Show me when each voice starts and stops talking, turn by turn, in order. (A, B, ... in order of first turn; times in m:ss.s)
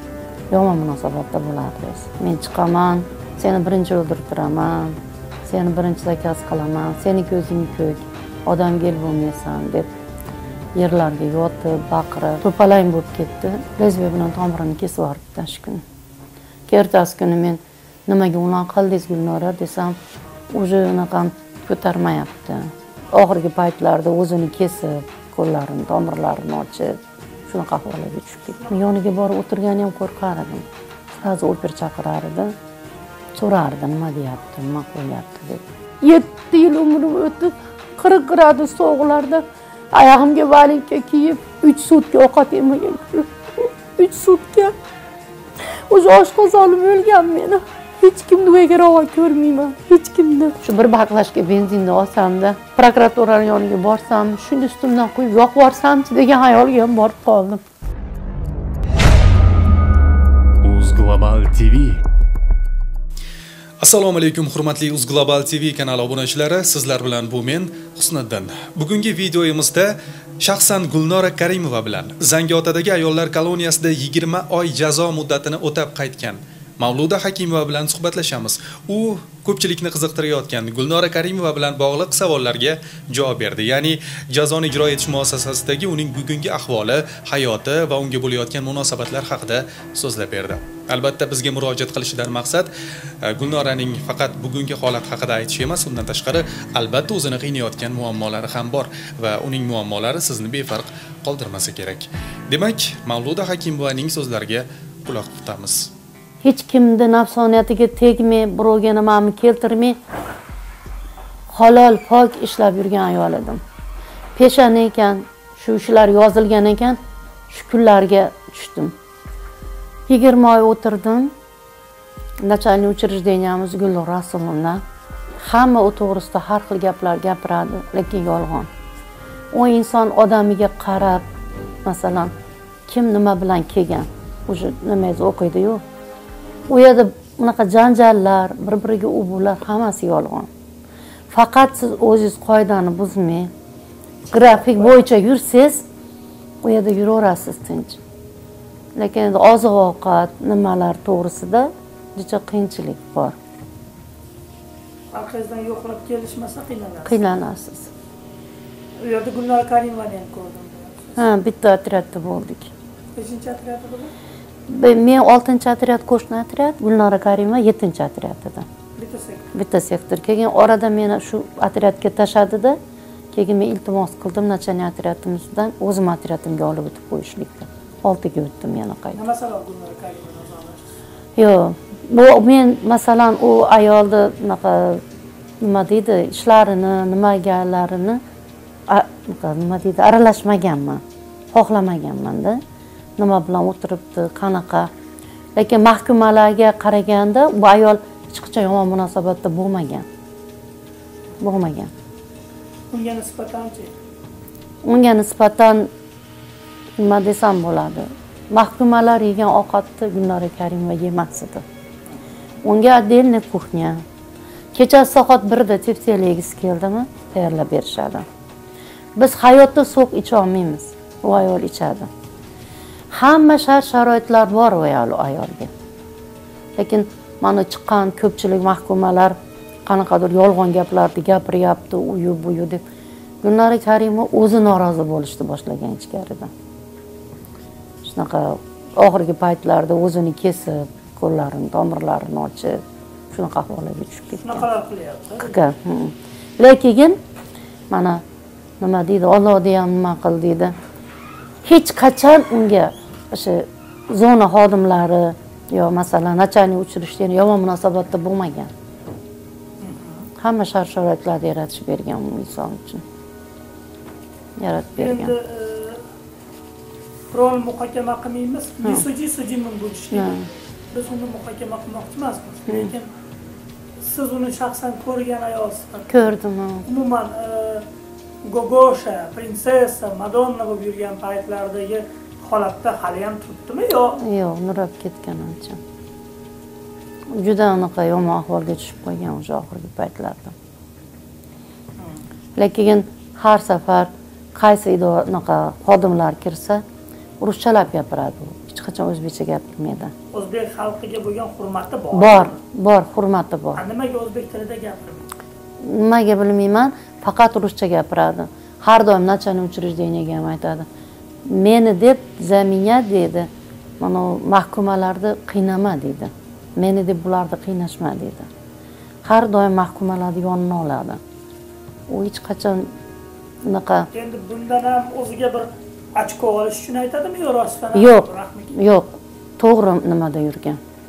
0:00.5-0:09.9 A
0:10.8-0:15.8 A
0:16.7-0:20.0 A
0:20.5-0:30.7 A
0:31.2-0:32.5 A
0:33.4-0:44.7 A
0:45.9-0:57.6 A
1:00.6-1:02.0 B
1:03.8-1:32.7 B
1:33.2-1:45.9 B
1:46.4-1:50.0 A
1:51.5-1:53.6 A
1:54.4-1:58.9 A
2:00.1-2:01.3 A
2:02.4-2:04.8 A
2:05.4-2:08.7 A
2:09.5-2:11.2 A
2:11.8-2:12.3 A
2:12.9-2:15.8 A
2:16.7-2:20.5 A
2:21.3-2:23.5 A
2:24.3-2:25.0 C
2:24.3-2:25.8 A
2:26.6-2:28.0 A
2:29.0-2:33.4 A
2:35.1-2:37.3 C
2:37.0-2:37.9 A
2:39.0-2:41.2 C
2:41.2-2:42.7 A
2:43.2-2:44.1 C
2:44.7-2:48.6 A
2:49.0-2:49.5 C
2:49.5-2:52.8 A
2:53.3-2:59.2 A
2:59.1-3:00.9 C
3:01.4-3:05.0 A
3:05.6-3:08.2 A
3:08.9-3:11.0 A
3:11.5-3:12.6 A
3:13.2-3:14.9 A
3:15.6-3:20.1 A
3:21.4-3:21.9 A
3:22.9-3:23.9 C
3:24.8-3:25.9 A
3:27.0-3:31.6 A
3:32.6-3:34.0 A
3:34.7-3:38.2 A
3:39.2-3:42.1 A
3:43.1-3:45.7 A
3:46.8-3:49.4 A
3:49.9-3:52.8 A
3:53.4-3:56.5 A
3:58.0-4:04.6 A
4:04.4-4:05.5 C
4:05.4-4:07.2 A
4:07.9-4:08.2 A
4:08.8-4:10.8 A
4:11.6-4:18.7 A
4:19.8-4:20.3 C
4:20.4-4:23.0 A
4:24.6-4:25.3 A
4:25.0-4:26.0 C
4:27.3-4:30.4 C
4:30.1-4:30.5 A
4:30.9-4:33.1 C
4:34.0-4:36.1 C
4:36.1-4:36.9 A
4:36.9-4:37.8 C
4:38.4-4:44.2 C
4:44.2-4:45.8 A
4:47.3-4:50.6 A
4:52.6-4:56.8 A
4:57.4-5:00.1 A
5:00.3-5:02.6 C
5:02.1-5:03.8 A
5:03.8-5:05.3 C
5:05.8-5:10.9 A
5:11.5-5:13.5 A
5:14.0-5:18.5 A
5:19.2-5:21.2 A
5:22.1-5:22.9 A
5:23.6-5:24.1 A
5:24.1-5:28.8 C
5:27.9-5:30.8 A